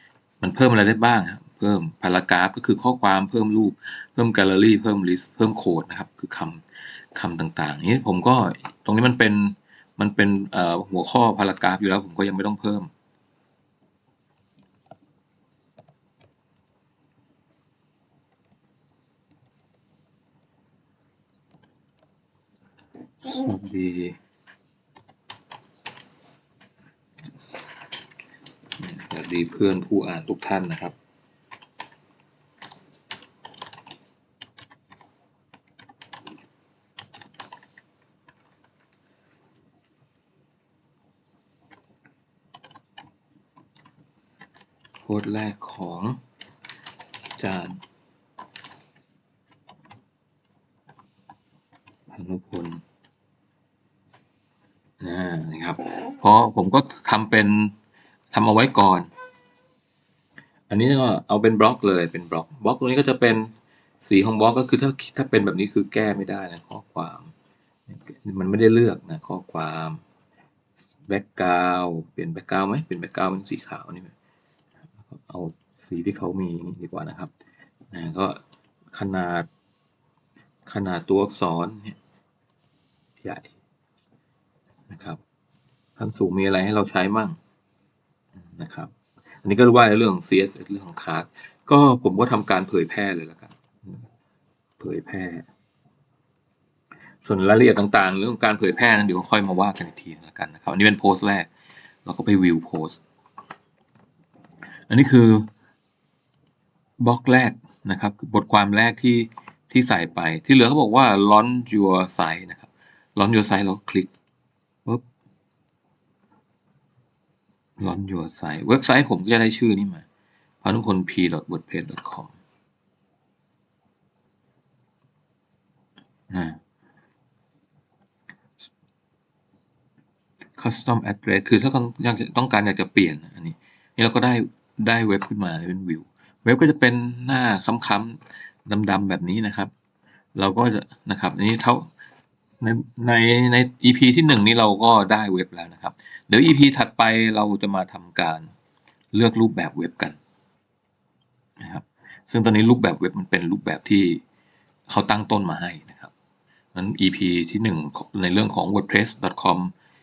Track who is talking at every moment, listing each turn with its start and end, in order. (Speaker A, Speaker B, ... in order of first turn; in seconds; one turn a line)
Speaker A: 0.4-6.6
Speaker A: 7.1-12.9
Speaker A: 23.2-24.2
Speaker A: 28.8-30.9
Speaker A: 45.0-46.2
Speaker A: 47.4-47.8
Speaker A: 52.1-52.8
Speaker A: 55.0-57.7
Speaker A: 58.3-59.1
Speaker A: 60.7-63.5
Speaker A: 64.0-67.3
Speaker A: 67.9-70.0
Speaker A: 71.1-74.1
Speaker A: 75.1-77.3
Speaker A: 77.9-78.4
Speaker A: 78.9-79.5
Speaker A: 80.7-82.0
Speaker A: 83.2-83.5
Speaker A: 84.9-85.2
Speaker A: 86.0-87.4
Speaker A: 88.5-88.9
Speaker A: 89.4-94.0
Speaker A: 94.8-95.5
Speaker A: 97.2-101.5
Speaker A: 102.0-103.0
Speaker A: 104.9-105.5
Speaker A: 107.0-114.1
Speaker A: 117.8-120.0
Speaker A: 120.6-122.3
Speaker A: 126.3-126.6
Speaker A: 130.6-139.7
Speaker A: 140.3-141.9
Speaker A: 142.6-148.5
Speaker A: 149.1-150.2
Speaker A: 151.6-154.2
Speaker A: 154.9-156.1
Speaker A: 156.8-159.7